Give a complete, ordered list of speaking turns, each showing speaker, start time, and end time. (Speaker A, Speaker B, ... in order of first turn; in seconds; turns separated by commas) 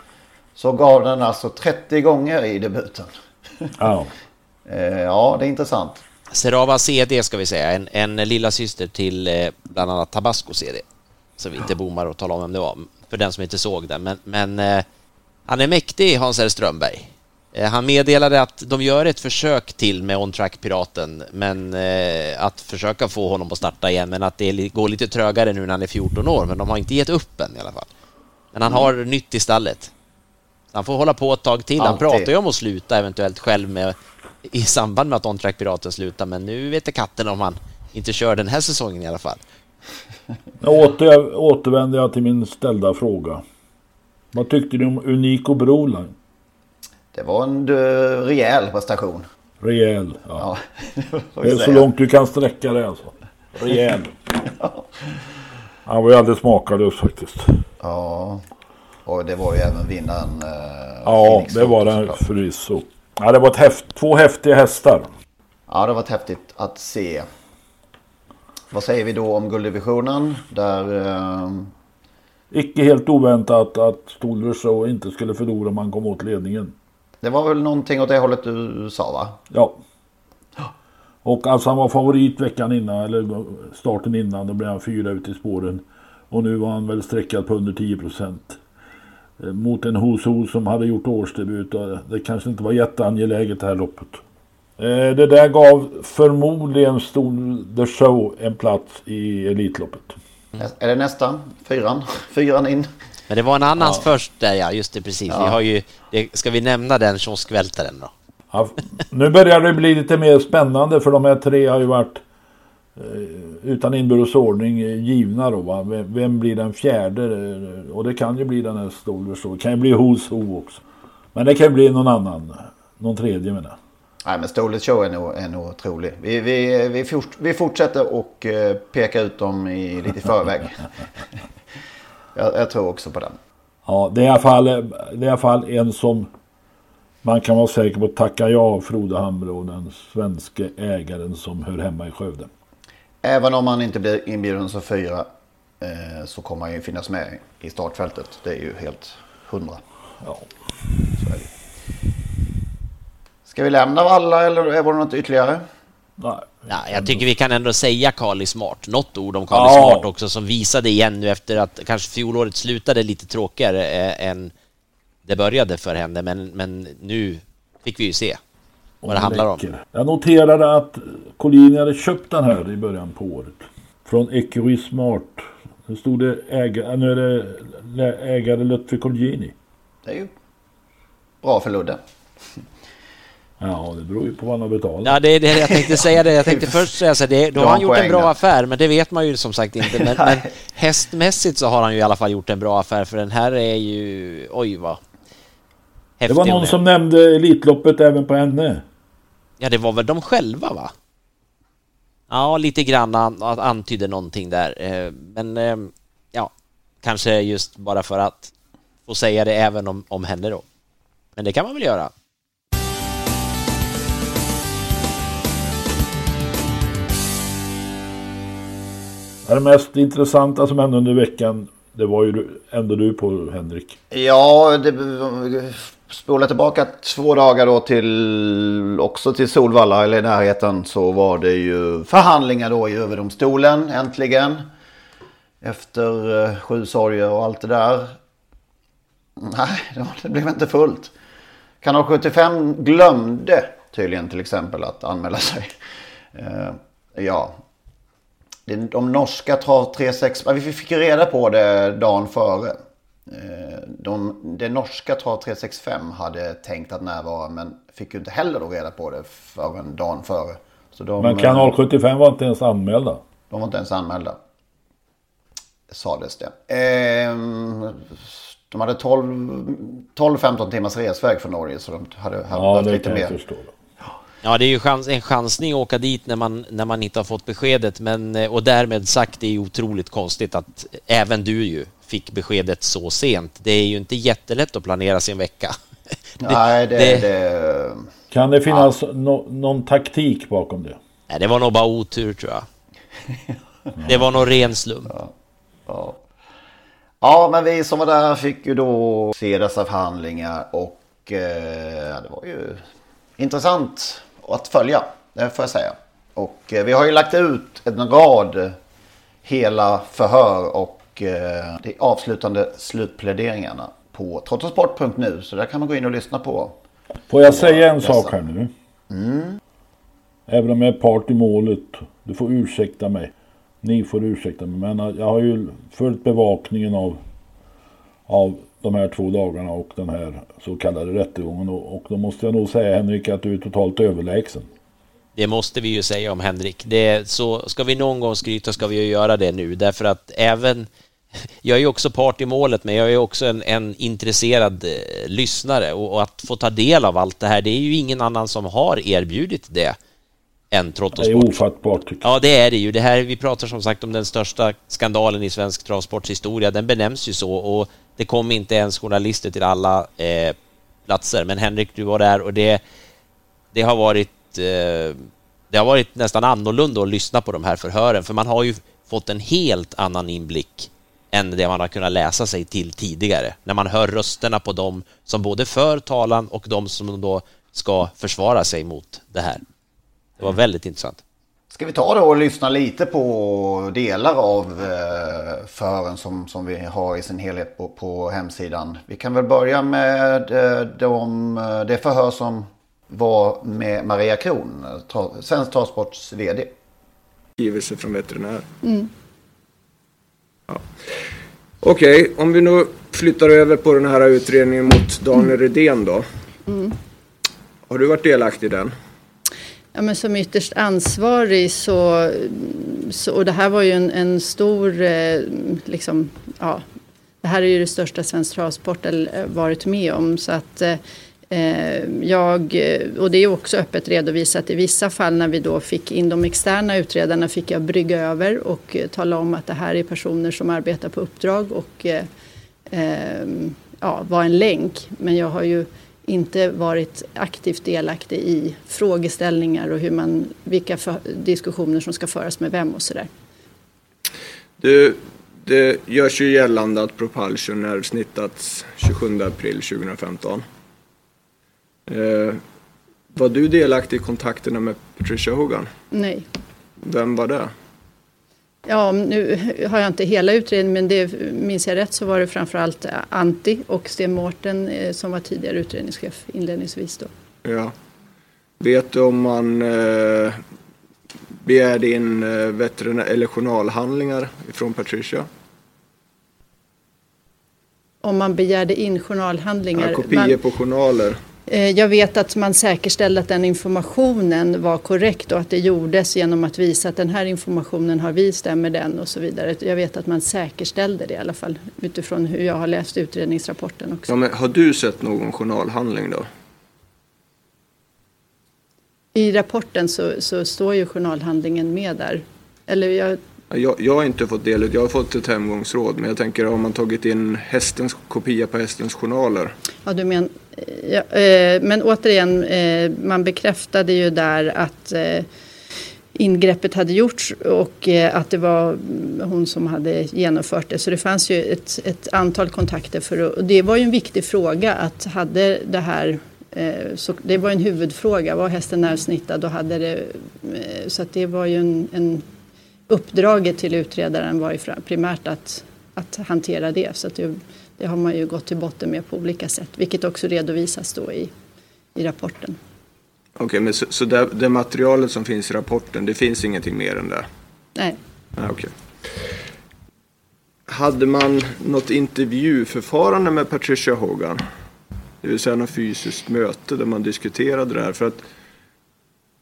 Speaker A: 0.6-3.7, Speaker B: 3.8-4.1, Speaker A: 4.7-6.0, Speaker C: 6.3-10.8, Speaker C: 11.4-14.8, Speaker C: 15.5-27.9, Speaker C: 28.5-29.9, Speaker C: 30.7-34.0, Speaker A: 31.8-32.3, Speaker C: 34.5-39.4, Speaker B: 40.6-43.4, Speaker B: 44.3-46.1, Speaker A: 47.1-49.3, Speaker B: 49.6-50.5, Speaker A: 50.4-51.9, Speaker B: 51.4-54.1, Speaker A: 54.5-55.2, Speaker B: 55.9-57.6, Speaker A: 57.8-58.5, Speaker A: 59.1-62.2, Speaker B: 61.0-65.1, Speaker A: 65.7-67.3, Speaker A: 68.7-71.7, Speaker B: 72.5-76.7, Speaker A: 77.2-79.4, Speaker B: 79.5-79.8, Speaker B: 81.2-88.6, Speaker B: 89.4-94.2, Speaker B: 94.8-100.2, Speaker A: 100.6-102.9, Speaker C: 103.3-108.1, Speaker A: 105.3-105.6, Speaker B: 108.5-112.2, Speaker B: 113.0-120.8, Speaker B: 121.3-123.8, Speaker A: 124.2-130.7, Speaker A: 132.3-133.4, Speaker B: 133.9-136.3, Speaker B: 137.2-142.5, Speaker A: 143.2-145.3, Speaker A: 145.8-149.8, Speaker A: 151.2-151.5, Speaker A: 153.4-155.7, Speaker B: 156.2-157.2, Speaker C: 156.7-164.5, Speaker B: 159.5-160.1, Speaker C: 165.3-168.4, Speaker B: 169.0-179.5, Speaker C: 169.1-169.6, Speaker A: 180.1-180.3, Speaker A: 181.4-182.0, Speaker B: 183.6-185.2, Speaker C: 185.0-195.0, Speaker A: 185.6-186.9, Speaker A: 187.6-188.3, Speaker A: 190.0-190.5, Speaker C: 196.2-196.8, Speaker B: 196.3-198.8, Speaker C: 199.6-200.9, Speaker C: 202.3-206.5, Speaker C: 207.0-208.5, Speaker C: 209.1-210.7, Speaker C: 211.4-212.1, Speaker B: 219.5-224.0, Speaker A: 224.1-234.7, Speaker A: 235.6-238.1, Speaker A: 239.4-241.1, Speaker A: 241.8-245.7, Speaker A: 246.3-247.6, Speaker A: 248.7-261.7, Speaker B: 261.2-263.2, Speaker A: 263.5-264.4, Speaker A: 265.9-273.4, Speaker B: 272.5-273.7, Speaker C: 274.4-285.8, Speaker A: 286.4-288.1, Speaker C: 286.4-287.3, Speaker B: 288.3-291.0, Speaker C: 291.3-292.7, Speaker C: 294.1-295.1, Speaker A: 295.9-296.2, Speaker A: 297.2-302.8, Speaker A: 303.4-308.8, Speaker A: 309.4-316.8, Speaker B: 317.3-318.7, Speaker A: 317.5-318.3, Speaker A: 319.1-319.6, Speaker B: 320.5-323.3, Speaker B: 323.8-327.2, Speaker B: 328.3-334.7, Speaker C: 335.4-340.9, Speaker C: 341.6-350.0, Speaker C: 350.7-351.6, Speaker B: 351.2-352.3, Speaker C: 352.2-360.6, Speaker C: 361.1-362.8, Speaker C: 363.7-379.6, Speaker C: 380.4-381.2, Speaker A: 381.7-396.7, Speaker D: 397.6-398.7, Speaker E: 398.8-399.1, Speaker D: 401.8-406.2, Speaker E: 406.7-406.9, Speaker D: 407.9-408.9, Speaker E: 409.9-416.8, Speaker E: 417.4-421.0, Speaker E: 421.5-432.3, Speaker E: 432.9-443.3, Speaker D: 444.8-450.6, Speaker D: 452.1-452.6, Speaker D: 453.3-455.9, Speaker E: 456.1-456.5, Speaker D: 457.0-457.7, Speaker E: 458.9-467.3, Speaker D: 467.6-467.9, Speaker D: 468.8-470.6, Speaker D: 471.6-475.5, Speaker E: 478.2-480.6, Speaker D: 479.9-481.4, Speaker E: 481.7-494.3, Speaker D: 494.3-496.5, Speaker E: 499.3-503.4, Speaker D: 503.7-509.7, Speaker E: 510.1-515.5, Speaker E: 516.4-532.5, Speaker E: 533.1-541.5, Speaker E: 542.2-542.8, Speaker D: 543.6-547.5, Speaker D: 548.6-548.9, Speaker D: 550.9-554.6, Speaker D: 555.4-558.4